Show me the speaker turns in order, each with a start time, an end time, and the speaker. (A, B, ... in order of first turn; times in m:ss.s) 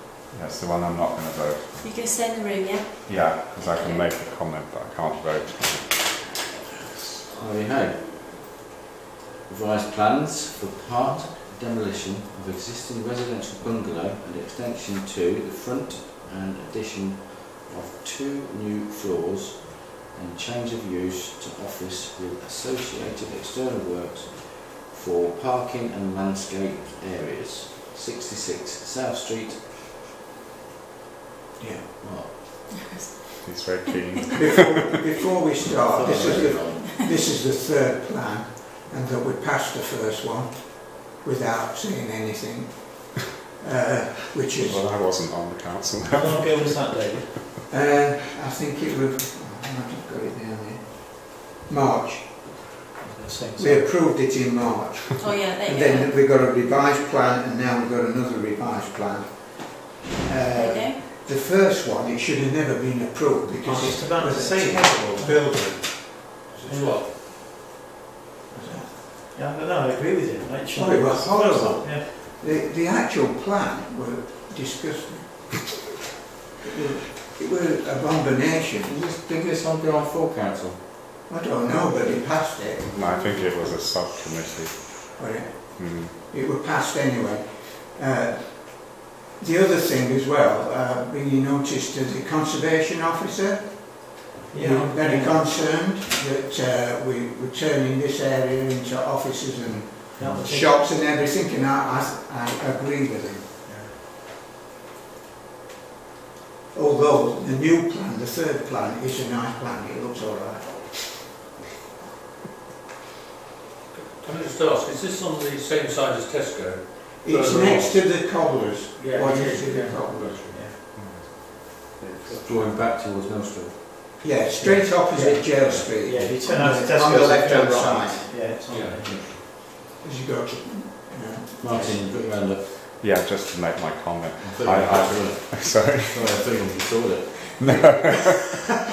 0:00.3-0:01.9 A
0:01.8-0:04.1 B
0:03.0-0:07.2 A
0:07.4-0:08.6 C
0:09.5-0:29.6 C
0:31.6-0:31.8 D
0:32.0-0:32.9 C
0:32.7-0:34.5 B
0:33.4-0:34.6 A
0:34.3-0:44.9 D
0:35.9-0:36.8 C
0:35.9-0:37.0 B
0:44.6-0:46.5 A
0:46.1-0:47.5 E
0:47.7-0:52.7 D
0:53.0-0:54.0 E
0:53.6-1:07.0 D
0:55.2-0:56.1 B
1:00.5-1:01.0 B
1:03.6-1:05.5 E
1:06.7-1:07.0 E
1:06.7-1:07.1 F
1:08.5-1:09.0 D
1:09.3-1:12.0 E
1:10.7-1:15.8 D
1:11.4-1:11.8 C
1:16.7-1:19.0 D
1:18.8-1:20.9 C
1:21.3-1:23.0 D
1:22.8-1:26.1 A
1:25.2-1:43.5 D
1:34.5-1:35.4 E
1:40.2-1:40.9 E
1:43.6-1:43.9 E
1:46.7-1:51.2 D
1:53.9-1:58.0 F
1:57.2-2:00.5 D
1:59.0-2:00.8 E
1:59.9-2:00.8 F
2:00.9-2:01.3 A
2:02.2-2:02.7 E
2:02.4-2:03.8 C
2:04.2-2:08.4 D
2:04.5-2:05.4 E
2:05.2-2:05.9 C
2:06.0-2:09.2 E
2:08.6-2:09.4 F
2:10.0-2:12.1 D
2:11.6-2:12.6 C
2:12.8-2:16.4 A
2:14.4-2:17.5 C
2:17.3-2:18.6 A
2:17.8-2:18.1 D